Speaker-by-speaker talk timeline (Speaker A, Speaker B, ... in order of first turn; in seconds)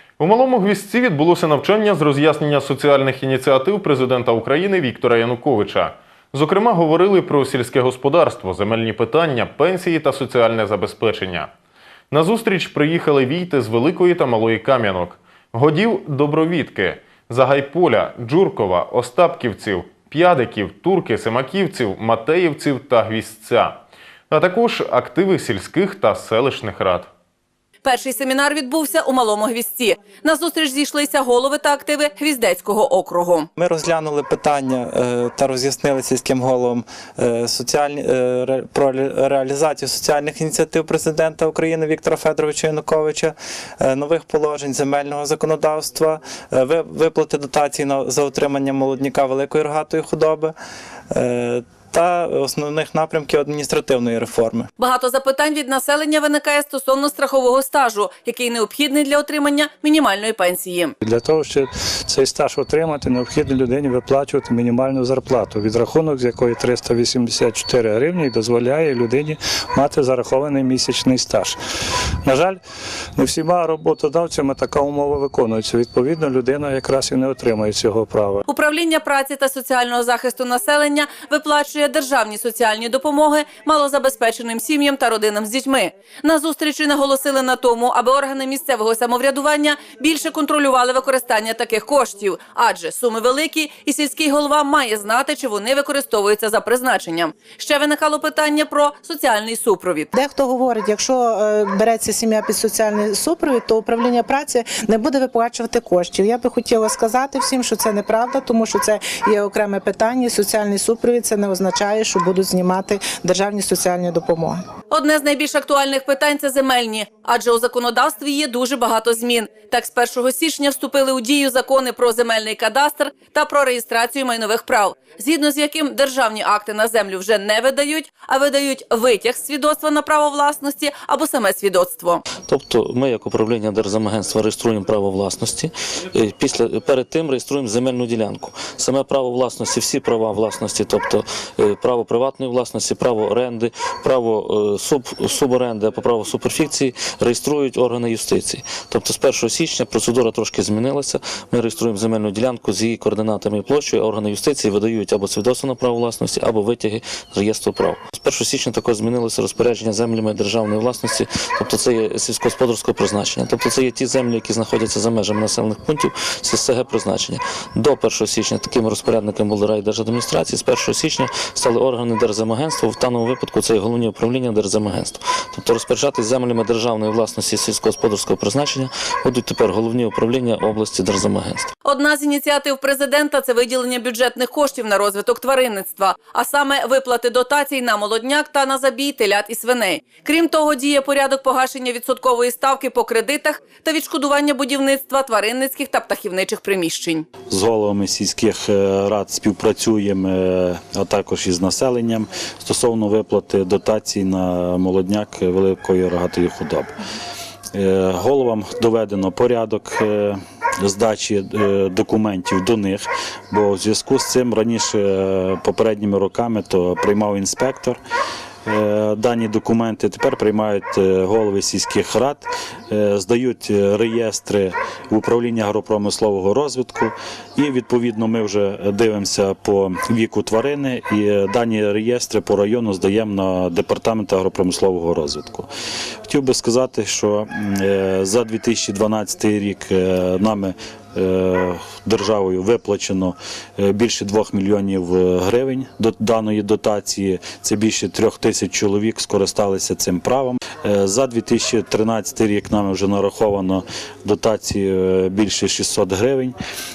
Speaker A: 0.2-11.5, 12.1-27.1
Speaker B: 27.8-33.5, 54.8-61.0, 78.5-100.1, 114.9-132.2, 181.8-197.3
Speaker C: 33.6-50.5, 51.1-54.7
Speaker D: 61.0-71.6, 72.2-72.6, 73.2-78.5
Speaker E: 100.1-114.6
Speaker F: 132.5-181.7
Speaker G: 197.5-206.9, 207.7-218.0, 218.7-235.7, 236.2-256.6